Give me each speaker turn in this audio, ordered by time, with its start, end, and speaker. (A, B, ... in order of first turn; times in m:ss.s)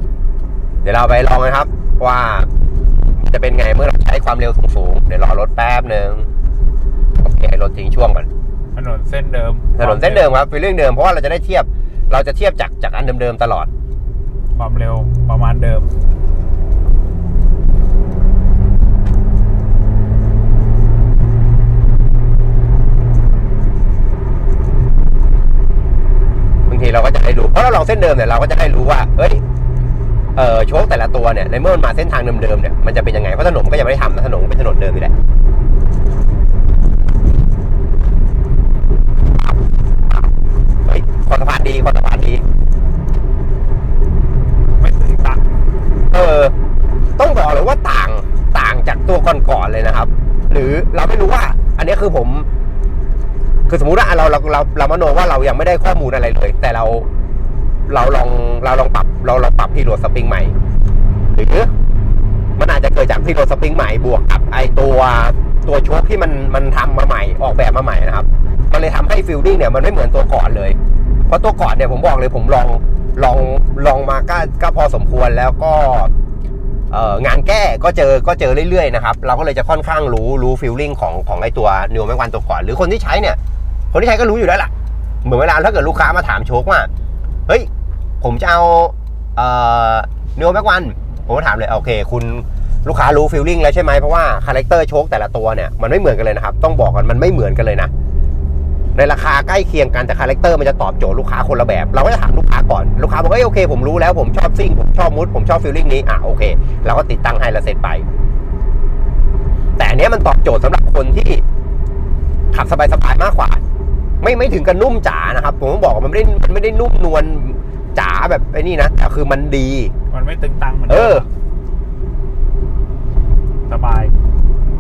0:00.8-0:02.5 A
0:03.2-0:06.3 A
0:07.2-0:08.3 A
0:08.8-0:10.3 B
0:09.8-0:13.7 A
0:14.6-0:15.9 B
0:26.7-0:29.4 A
0:30.4-0:35.1 A
0:39.3-0:40.3 A
0:40.9-0:42.4 A
0:44.8-0:45.4 B
0:46.1-0:46.5 A
0:47.2-0:52.5 A
0:53.7-0:57.1 A
0:57.9-1:00.5 A
1:01.3-1:01.7 A
1:02.6-1:10.8 A
1:11.3-1:16.1 A
1:16.9-1:23.4 A
1:23.9-1:24.7 A
1:25.2-1:26.9 A
1:28.2-1:37.9 A
1:39.0-1:48.1 A
1:49.8-1:51.4 A
1:52.5-1:53.6 A
1:54.2-1:59.9 A
2:00.1-2:01.3 B
2:00.9-2:01.3 A
2:03.7-2:04.1 B